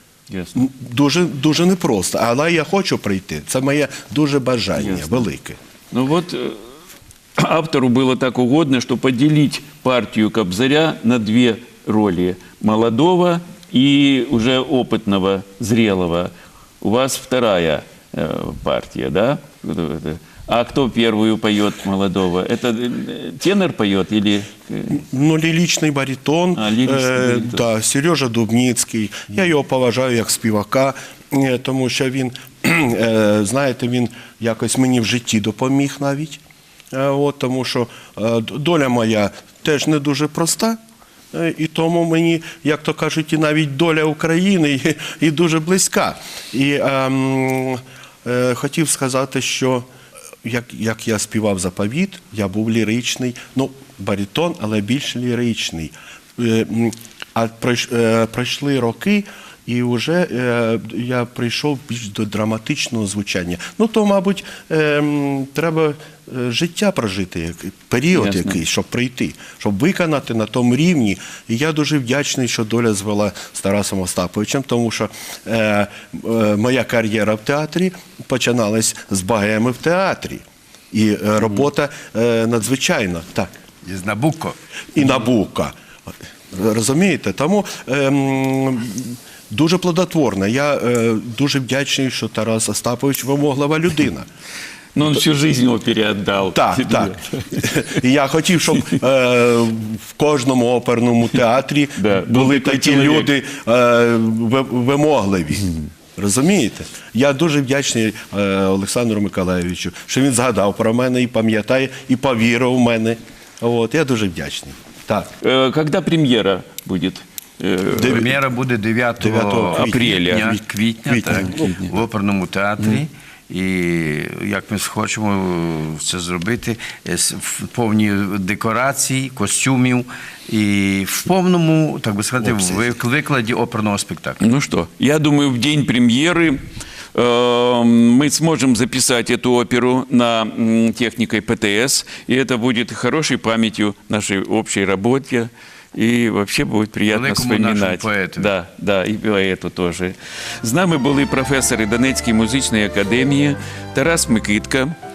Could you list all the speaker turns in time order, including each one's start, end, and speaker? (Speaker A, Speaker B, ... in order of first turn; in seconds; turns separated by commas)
Speaker A: 0.3-0.6, Speaker B: 0.5-5.6, Speaker A: 4.8-5.2, Speaker A: 5.9-6.6, Speaker A: 7.4-25.0, Speaker B: 24.9-36.4, Speaker A: 26.5-27.6, Speaker B: 36.9-40.8, Speaker B: 41.3-49.9, Speaker B: 50.4-83.5, Speaker A: 68.1-68.6, Speaker C: 83.8-84.6, Speaker B: 84.9-85.7, Speaker B: 86.5-94.3, Speaker A: 95.0-97.8, Speaker B: 96.5-115.3, Speaker A: 102.0-103.3, Speaker A: 115.4-118.3, Speaker B: 117.9-118.4, Speaker C: 118.0-134.4, Speaker B: 119.2-121.9, Speaker A: 119.7-120.6, Speaker A: 121.3-121.9, Speaker B: 132.4-133.0, Speaker A: 134.4-136.6, Speaker A: 137.1-154.9, Speaker C: 147.1-148.5